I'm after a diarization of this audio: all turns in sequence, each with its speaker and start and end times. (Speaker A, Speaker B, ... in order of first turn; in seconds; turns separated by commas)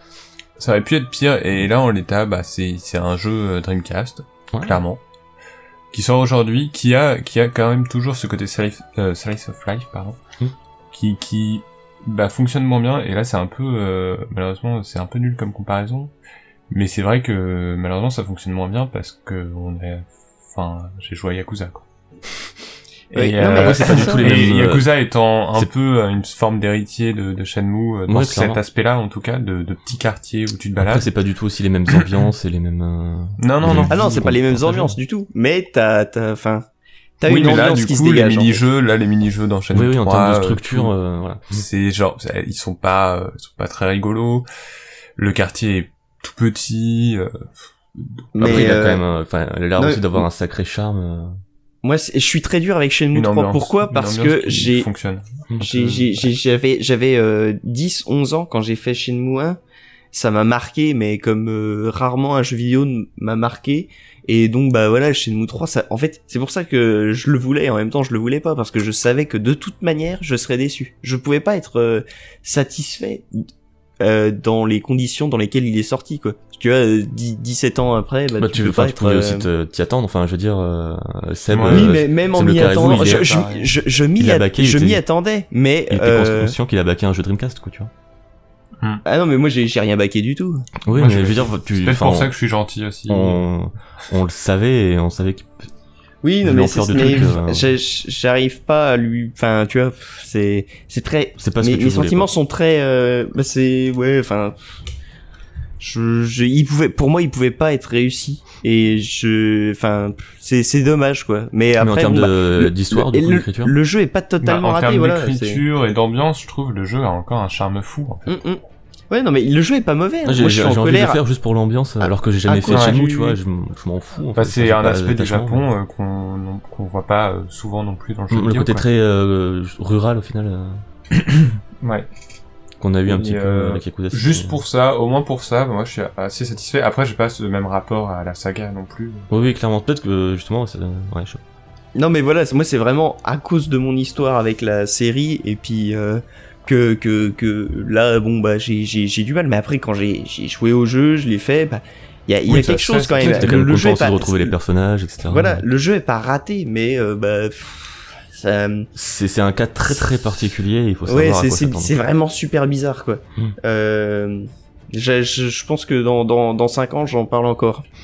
Speaker A: 0.6-5.0, Speaker B: 4.5-4.8, Speaker A: 5.9-10.2, Speaker A: 10.9-16.1, Speaker A: 16.7-21.8, Speaker A: 23.1-31.1, Speaker C: 23.1-24.4, Speaker B: 23.5-24.9, Speaker B: 28.1-28.6, Speaker B: 30.8-35.0, Speaker A: 31.9-32.1, Speaker A: 33.4-34.0, Speaker C: 33.9-36.6, Speaker C: 37.2-38.6, Speaker A: 37.2-40.9, Speaker B: 39.7-41.6, Speaker A: 41.5-44.5, Speaker A: 45.2-48.3, Speaker C: 48.3-49.0, Speaker B: 48.4-51.4, Speaker C: 49.8-50.2, Speaker C: 51.8-54.9, Speaker A: 53.1-55.4, Speaker B: 55.5-56.1, Speaker C: 55.6-59.6, Speaker C: 60.1-73.5, Speaker C: 74.0-79.5, Speaker B: 78.4-83.4, Speaker A: 81.5-81.9, Speaker C: 81.6-86.5, Speaker A: 82.7-83.8, Speaker B: 84.2-85.0, Speaker B: 85.9-87.9, Speaker C: 89.0-90.7, Speaker B: 90.8-92.3, Speaker A: 90.9-93.4, Speaker B: 93.1-95.6, Speaker C: 96.2-104.8, Speaker B: 96.4-97.7, Speaker B: 101.4-102.3, Speaker C: 105.8-115.6, Speaker B: 111.8-113.7, Speaker A: 114.4-118.4, Speaker C: 118.3-121.2, Speaker B: 120.2-125.7, Speaker C: 122.5-123.4, Speaker A: 122.7-123.0, Speaker A: 124.3-128.8, Speaker B: 128.3-130.8, Speaker A: 131.1-132.1, Speaker B: 132.8-134.6, Speaker A: 133.1-139.3, Speaker B: 139.3-141.4, Speaker C: 141.9-154.5, Speaker A: 152.5-153.6, Speaker B: 153.2-155.6, Speaker C: 155.3-158.9, Speaker B: 158.9-161.9, Speaker C: 161.1-167.8